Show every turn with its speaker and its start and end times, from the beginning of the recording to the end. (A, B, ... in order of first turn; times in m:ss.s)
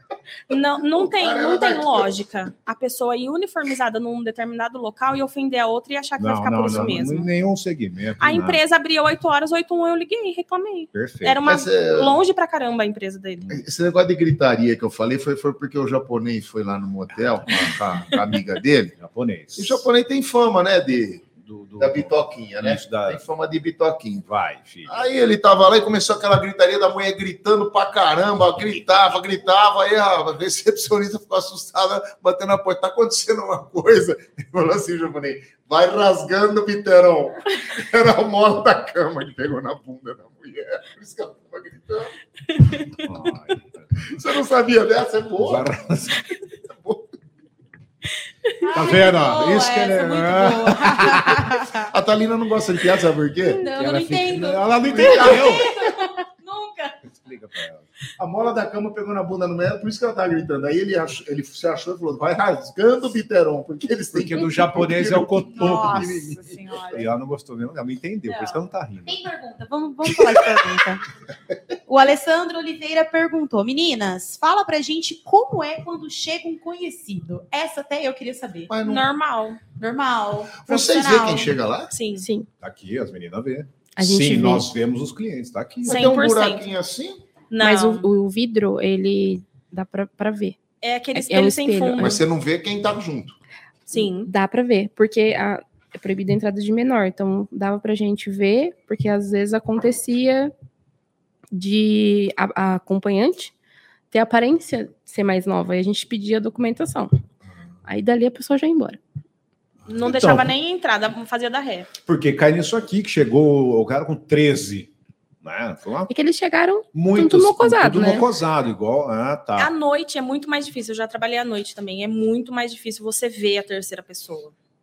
0:00.5-0:07.3 A
0:01.0-0:02.1 B
0:06.2-0:08.6 C
0:08.2-0:13.5 A
0:10.9-0:11.4 C
0:11.4-0:12.2 B
0:13.5-0:18.9 B
0:17.1-0:17.8 C
0:19.0-0:19.8 C
0:19.6-0:21.2 B
0:21.4-0:23.2 C
0:21.8-0:24.3 B
0:24.3-0:25.0 C
0:24.9-0:42.1 B
0:43.0-0:43.9 C
0:44.0-0:45.8 B
0:45.4-0:46.2 C
0:46.7-0:47.0 B
0:48.6-0:51.9 D
0:48.7-0:51.6 C
0:51.9-0:53.6 B
0:53.4-0:57.0 D
0:53.6-0:55.7 C
0:54.9-0:55.7 B
0:57.1-0:57.8 C
0:58.2-1:07.0 B
1:04.1-1:06.3 C
1:05.4-1:07.0 D
1:06.9-1:09.1 C
1:08.2-1:11.0 D
1:10.3-1:10.6 C
1:11.9-1:18.8 D
1:18.7-1:19.0 B
1:18.8-1:19.6 A
1:19.8-1:21.6 D
1:20.6-1:21.9 B
1:21.9-1:22.2 A
1:22.2-1:22.5 E
1:22.6-1:26.1 C
1:24.0-1:24.7 E
1:25.8-1:26.6 A
1:25.8-1:27.2 B
1:27.5-1:28.1 A
1:27.6-1:30.6 E
1:30.8-1:32.2 A
1:31.1-1:32.2 E
1:32.0-1:33.4 B
1:33.9-1:34.3 A
1:34.2-1:40.5 E
1:41.5-1:43.5 E
1:44.1-1:47.1 E
1:47.8-1:49.0 E
1:49.9-1:51.9 A
1:50.0-1:50.5 C
1:52.0-1:54.9 C
1:55.4-1:56.1 C
1:56.1-1:58.2 E
1:56.9-1:59.7 C
1:59.6-2:04.5 A